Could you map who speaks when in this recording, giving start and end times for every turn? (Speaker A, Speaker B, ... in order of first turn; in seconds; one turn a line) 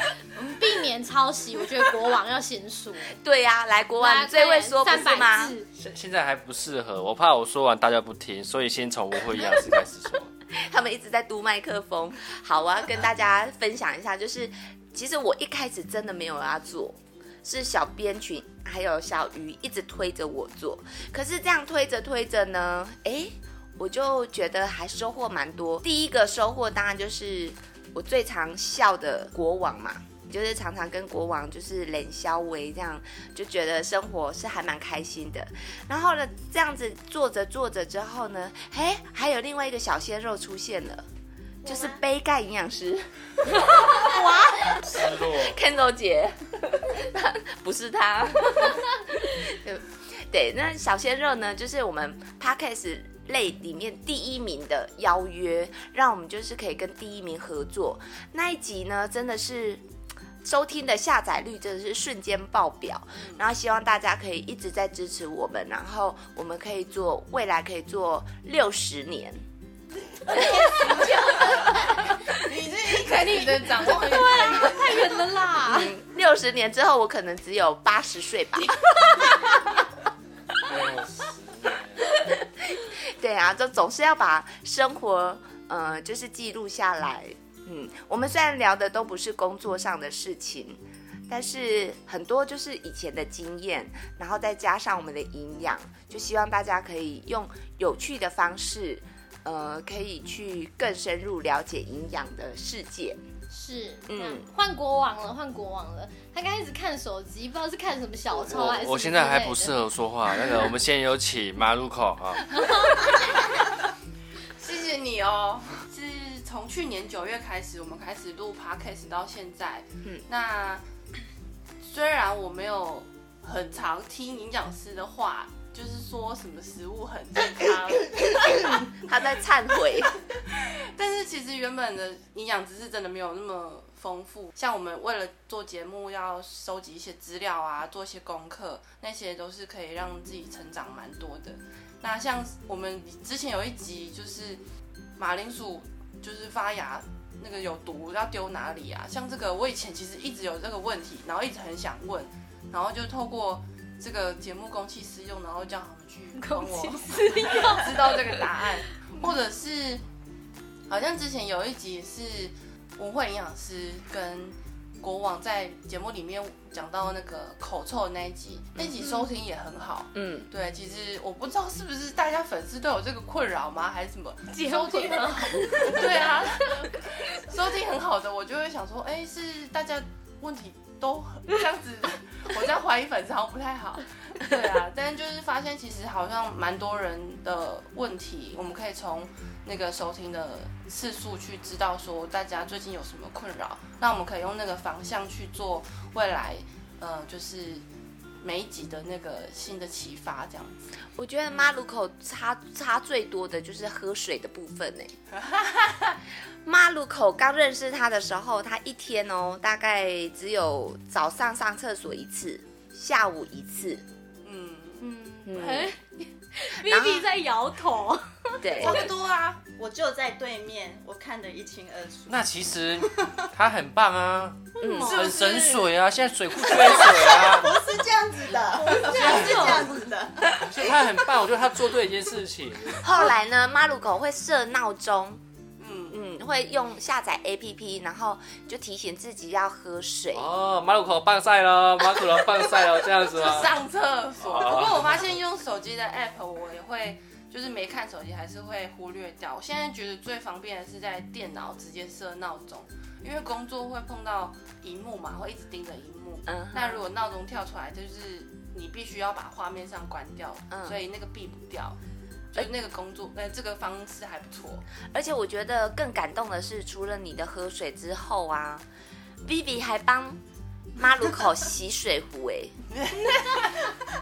Speaker A: 0.3-3.1
Speaker B: 3.1-5.5
Speaker A: 4.0-5.7
Speaker C: 5.8-10.3
Speaker B: 10.5-41.0
Speaker B: 41.6-59.8
Speaker C: 44.9-45.6
Speaker B: 60.4-69.4
Speaker D: 63.2-63.4
Speaker D: 70.3-75.3
Speaker A: 70.3-72.0
Speaker B: 70.4-71.0
Speaker A: 73.6-75.9
Speaker B: 75.6-79.6
Speaker C: 80.7-82.1
Speaker B: 82.2-103.2
Speaker A: 103.5-109.7
Speaker B: 104.1-104.5
Speaker C: 108.3-112.5
Speaker A: 112.5-113.1
Speaker D: 114.6-120.8
Speaker D: 121.8-128.5
Speaker B: 128.7-130.2
Speaker D: 130.5-144.6
Speaker D: 145.2-160.0
Speaker A: 156.3-158.4
Speaker D: 160.9-197.8
Speaker B: 170.1-170.5
Speaker A: 174.5-176.0
Speaker D: 198.4-200.9
Speaker B: 201.2-205.1
Speaker D: 205.3-206.2
Speaker B: 206.6-214.0
Speaker D: 214.4-215.0
Speaker A: 215.0-219.1
Speaker B: 215.4-215.9
Speaker B: 216.8-217.2
Speaker B: 218.6-219.1
Speaker D: 218.7-219.6
Speaker E: 219.7-222.4
Speaker C: 222.3-227.7
Speaker B: 224.8-225.2
Speaker A: 224.8-225.6
Speaker D: 225.1-225.8
Speaker E: 226.6-231.0
Speaker A: 228.8-230.1
Speaker D: 228.9-229.6
Speaker C: 229.1-229.7
Speaker C: 230.6-233.0
Speaker B: 233.0-235.4
Speaker D: 235.8-236.2
Speaker B: 236.1-240.5
Speaker C: 240.3-243.7
Speaker D: 243.3-262.0
Speaker C: 244.4-245.2
Speaker B: 256.5-257.0
Speaker B: 260.7-261.0
Speaker D: 262.5-264.8
Speaker B: 265.1-268.8
Speaker B: 269.4-270.4
Speaker B: 270.9-272.7
Speaker D: 273.0-273.4